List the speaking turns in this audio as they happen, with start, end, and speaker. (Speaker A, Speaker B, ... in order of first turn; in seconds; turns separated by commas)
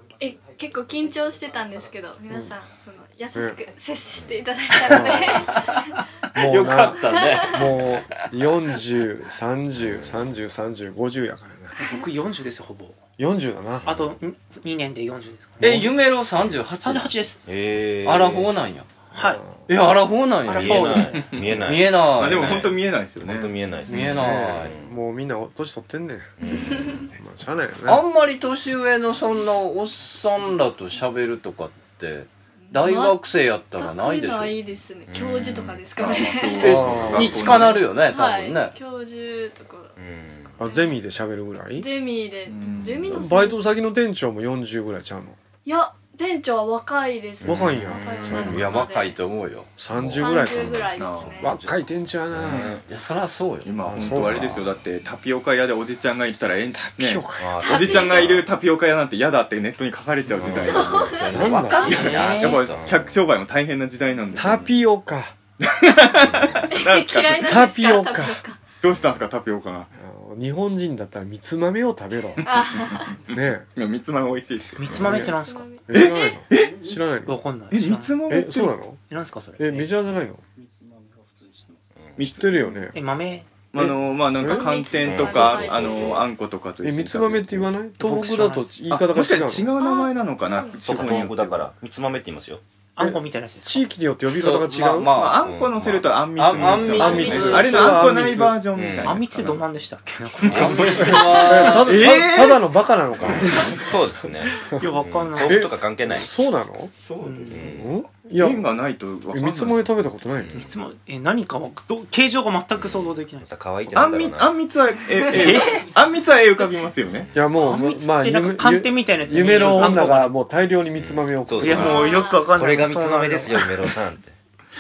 Speaker A: 0.2-6.0, Speaker B: 4.8-5.5, Speaker C: 5.5-5.8, Speaker C: 6.3-8.2, Speaker B: 6.4-11.8, Speaker A: 7.2-7.6, Speaker D: 9.8-10.2, Speaker E: 11.8-13.0, Speaker B: 13.2-14.0, Speaker E: 13.8-15.9, Speaker C: 15.6-17.2, Speaker E: 16.8-17.4, Speaker D: 17.5-18.5, Speaker C: 18.0-18.9, Speaker E: 19.1-19.4, Speaker B: 19.2-19.5, Speaker C: 19.7-22.7, Speaker E: 20.5-21.2, Speaker D: 20.5-24.9, Speaker F: 21.2-23.6, Speaker C: 23.9-24.8, Speaker B: 23.9-28.0, Speaker D: 26.4-27.0, Speaker C: 27.9-34.6, Speaker A: 32.7-33.2, Speaker A: 33.8-36.8, Speaker D: 35.1-35.8, Speaker F: 36.0-37.9, Speaker C: 36.6-38.8, Speaker B: 36.6-37.5, Speaker A: 38.0-39.9, Speaker D: 40.0-40.6, Speaker B: 40.6-41.9, Speaker A: 40.6-41.0, Speaker A: 41.8-43.7, Speaker F: 42.5-43.3, Speaker B: 43.1-45.4, Speaker A: 45.7-49.2, Speaker D: 47.4-48.6, Speaker B: 47.5-48.9, Speaker C: 48.4-49.7, Speaker B: 49.8-52.8, Speaker D: 49.9-50.9, Speaker A: 50.2-51.5, Speaker F: 51.0-51.4, Speaker D: 52.3-52.8, Speaker C: 52.9-53.7, Speaker F: 53.6-61.2, Speaker B: 53.8-54.8, Speaker B: 56.8-57.8, Speaker D: 57.4-58.4, Speaker A: 57.6-58.3, Speaker D: 60.4-63.2, Speaker A: 60.5-62.3, Speaker C: 61.2-62.7, Speaker B: 61.3-62.5, Speaker F: 61.7-64.7, Speaker B: 64.3-65.3, Speaker D: 64.3-64.7, Speaker F: 65.6-67.6, Speaker D: 66.2-66.7, Speaker A: 66.7-68.6, Speaker B: 67.4-68.4, Speaker F: 68.8-69.9, Speaker B: 70.0-72.5, Speaker F: 72.4-75.2, Speaker A: 72.5-73.1, Speaker B: 73.3-73.7, Speaker E: 74.8-75.7, Speaker B: 74.9-75.4, Speaker A: 75.2-76.4, Speaker B: 75.9-77.4, Speaker F: 75.9-76.9, Speaker E: 77.3-78.2, Speaker F: 77.7-78.8, Speaker B: 78.3-79.0, Speaker E: 79.1-79.9, Speaker B: 79.6-80.4, Speaker F: 82.2-82.6, Speaker B: 82.2-83.0, Speaker E: 82.9-83.5, Speaker F: 83.7-87.7, Speaker B: 83.8-84.8, Speaker A: 84.4-86.3, Speaker D: 85.0-86.2, Speaker B: 86.8-89.8, Speaker E: 88.0-88.8, Speaker F: 88.9-91.6, Speaker A: 89.8-91.0, Speaker D: 90.8-92.6, Speaker E: 93.0-93.9, Speaker B: 93.0-95.1, Speaker C: 94.4-95.5, Speaker F: 95.1-99.6, Speaker D: 95.4-97.0, Speaker C: 96.4-98.2, Speaker B: 96.8-98.6, Speaker D: 98.7-99.5, Speaker E: 99.0-102.0, Speaker C: 100.5-102.0, Speaker B: 101.0-103.8, Speaker F: 101.8-102.7, Speaker D: 103.2-106.3, Speaker F: 103.4-103.7, Speaker E: 104.8-105.8, Speaker B: 105.4-106.9, Speaker C: 107.0-107.7, Speaker E: 107.2-107.6, Speaker D: 107.5-107.9, Speaker B: 107.6-108.7, Speaker F: 108.3-109.8, Speaker B: 109.3-110.7, Speaker D: 110.4-110.6, Speaker E: 110.5-113.6, Speaker D: 112.8-114.5, Speaker F: 113.9-117.3, Speaker E: 115.3-115.8, Speaker B: 117.3-122.2, Speaker E: 117.6-120.3, Speaker D: 121.0-124.3, Speaker E: 121.6-123.7, Speaker A: 121.8-122.5